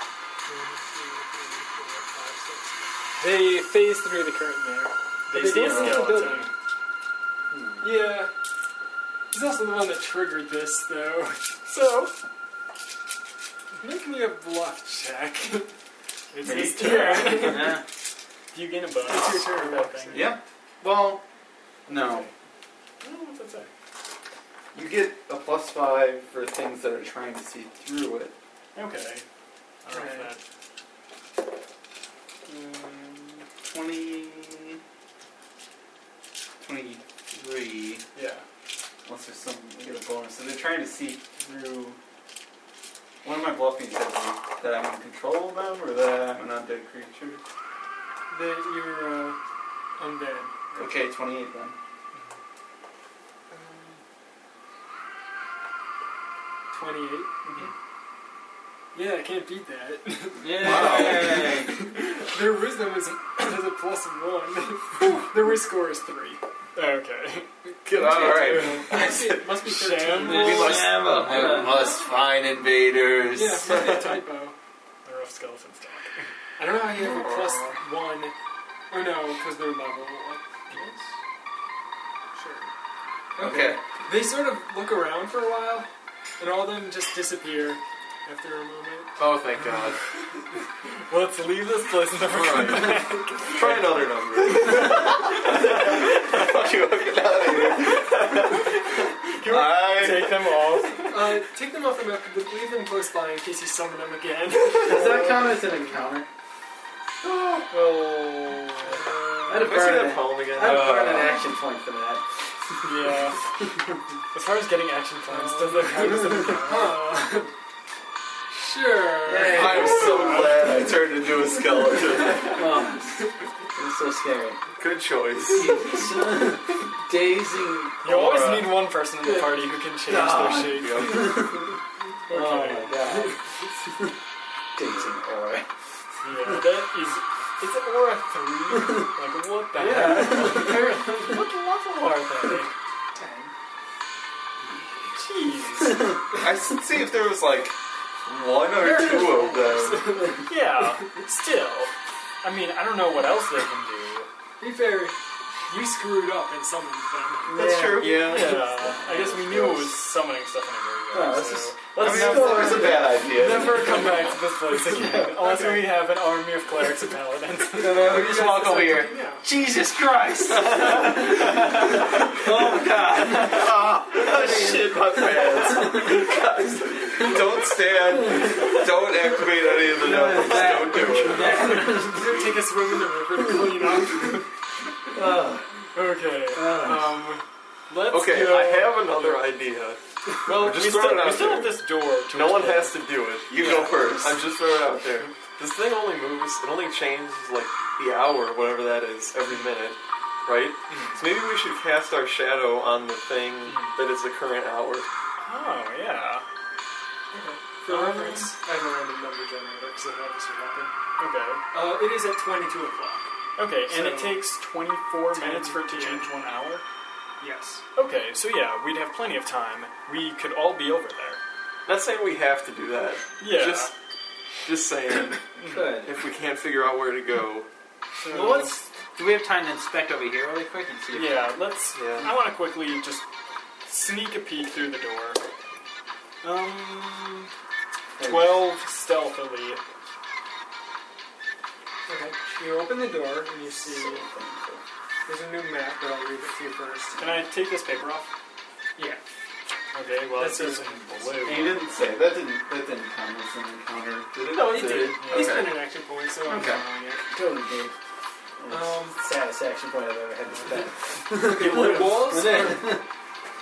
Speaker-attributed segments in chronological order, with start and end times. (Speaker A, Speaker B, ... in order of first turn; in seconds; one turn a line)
Speaker A: 0.5-6.5
Speaker B: 5.3-6.5
Speaker C: 5.6-6.2
Speaker D: 7.5-8.2
Speaker A: 7.8-8.3
Speaker A: 9.3-11.5
Speaker A: 13.8-15.7
Speaker B: 16.3-17.8
Speaker E: 16.4-17.3
Speaker A: 16.4-17.8
Speaker D: 17.4-17.9
Speaker B: 18.5-20.3
Speaker A: 19.0-20.3
Speaker E: 20.1-21.2
Speaker E: 21.9-22.3
Speaker B: 23.0-23.7
Speaker E: 24.7-28.3
Speaker B: 28.8-29.2
Speaker B: 29.8-30.4
Speaker A: 29.9-30.3
Speaker E: 32.5-34.8
Speaker E: 36.6-38.0
Speaker B: 38.1-38.5
Speaker E: 39.0-42.0
Speaker E: 43.2-47.4
Speaker A: 48.3-49.4
Speaker A: 50.0-50.8
Speaker E: 50.8-51.8
Speaker A: 53.5-54.0
Speaker A: 56.7-57.3
Speaker A: 58.9-66.4
Speaker D: 60.4-61.8
Speaker E: 60.5-61.5
Speaker B: 66.8-67.5
Speaker E: 67.9-69.5
Speaker C: 67.9-68.8
Speaker A: 67.9-70.8
Speaker B: 68.5-68.9
Speaker B: 69.7-70.7
Speaker D: 70.3-71.9
Speaker E: 70.4-74.2
Speaker C: 70.5-70.9
Speaker A: 73.3-74.6
Speaker B: 75.0-76.3
Speaker A: 76.6-78.3
Speaker C: 77.0-77.6
Speaker A: 78.9-81.0
Speaker B: 80.7-81.0
Speaker A: 82.3-82.7
Speaker A: 83.4-89.2
Speaker E: 83.4-83.8
Speaker C: 89.2-90.0
Speaker B: 91.1-93.5
Speaker C: 92.3-96.6
Speaker E: 93.6-100.9
Speaker C: 97.8-98.3
Speaker B: 99.4-101.2
Speaker A: 101.1-105.6
Speaker D: 104.8-106.3
Speaker E: 107.2-108.1
Speaker B: 107.7-109.0
Speaker A: 108.8-109.7
Speaker D: 109.5-112.9
Speaker C: 109.5-111.1
Speaker E: 110.6-111.4
Speaker B: 112.8-113.4
Speaker B: 114.3-116.9
Speaker A: 115.3-117.5
Speaker D: 116.1-116.7
Speaker A: 118.5-120.3
Speaker D: 119.2-120.3
Speaker E: 119.5-122.7
Speaker B: 120.0-120.7
Speaker C: 122.2-122.6
Speaker D: 122.5-123.1
Speaker D: 123.8-124.6
Speaker C: 124.8-125.9
Speaker D: 125.5-128.0
Speaker B: 128.0-131.3
Speaker E: 128.0-128.7
Speaker D: 130.1-131.7
Speaker C: 130.6-131.3
Speaker B: 132.3-133.1
Speaker D: 132.3-133.4
Speaker D: 134.8-135.7
Speaker B: 136.2-142.7
Speaker A: 139.8-141.4
Speaker D: 139.8-140.9
Speaker A: 143.2-143.5
Speaker B: 145.1-146.2
Speaker E: 146.3-150.4
Speaker A: 148.7-151.2
Speaker B: 150.5-154.3
Speaker A: 154.6-155.2
Speaker A: 155.7-157.5
Speaker E: 157.5-159.9
Speaker D: 157.5-159.7
Speaker B: 157.9-168.1
Speaker D: 161.1-163.6
Speaker E: 162.0-165.7
Speaker A: 165.5-165.8
Speaker D: 167.7-176.2
Speaker A: 167.8-169.5
Speaker E: 170.5-181.8
Speaker C: 174.9-176.2
Speaker D: 178.2-178.9
Speaker D: 179.4-182.4
Speaker C: 179.6-181.7
Speaker A: 181.8-184.5
Speaker D: 185.1-185.7
Speaker B: 185.9-189.5
Speaker D: 186.5-187.2
Speaker C: 188.1-205.1
Speaker B: 190.5-194.1
Speaker E: 193.5-194.4
Speaker B: 200.9-201.2
Speaker B: 203.7-204.0
Speaker B: 205.4-206.4
Speaker A: 207.3-210.9
Speaker B: 207.9-208.5
Speaker B: 211.2-211.6
Speaker A: 211.7-213.3
Speaker B: 213.6-216.8
Speaker A: 213.9-214.4
Speaker A: 215.3-216.3
Speaker A: 217.4-217.8
Speaker B: 217.9-221.4
Speaker C: 221.9-223.9
Speaker B: 223.4-223.9
Speaker C: 224.6-225.4
Speaker B: 225.6-226.0
Speaker D: 225.7-226.2
Speaker C: 226.1-227.7
Speaker B: 228.2-228.8
Speaker D: 228.3-231.6
Speaker B: 231.1-233.3
Speaker C: 231.9-232.3
Speaker B: 233.8-235.4
Speaker B: 236.4-237.5
Speaker E: 238.2-238.7
Speaker B: 238.2-239.8
Speaker A: 242.1-244.2
Speaker E: 244.0-244.8
Speaker A: 245.3-247.5
Speaker B: 247.2-248.3
Speaker A: 249.0-249.2
Speaker B: 249.9-251.8
Speaker A: 250.3-251.3
Speaker E: 251.4-255.1
Speaker C: 254.4-255.8
Speaker A: 254.7-257.2
Speaker B: 255.2-255.7
Speaker E: 256.5-256.9
Speaker D: 257.3-257.9
Speaker D: 258.6-263.1
Speaker A: 258.7-259.2
Speaker A: 261.4-263.0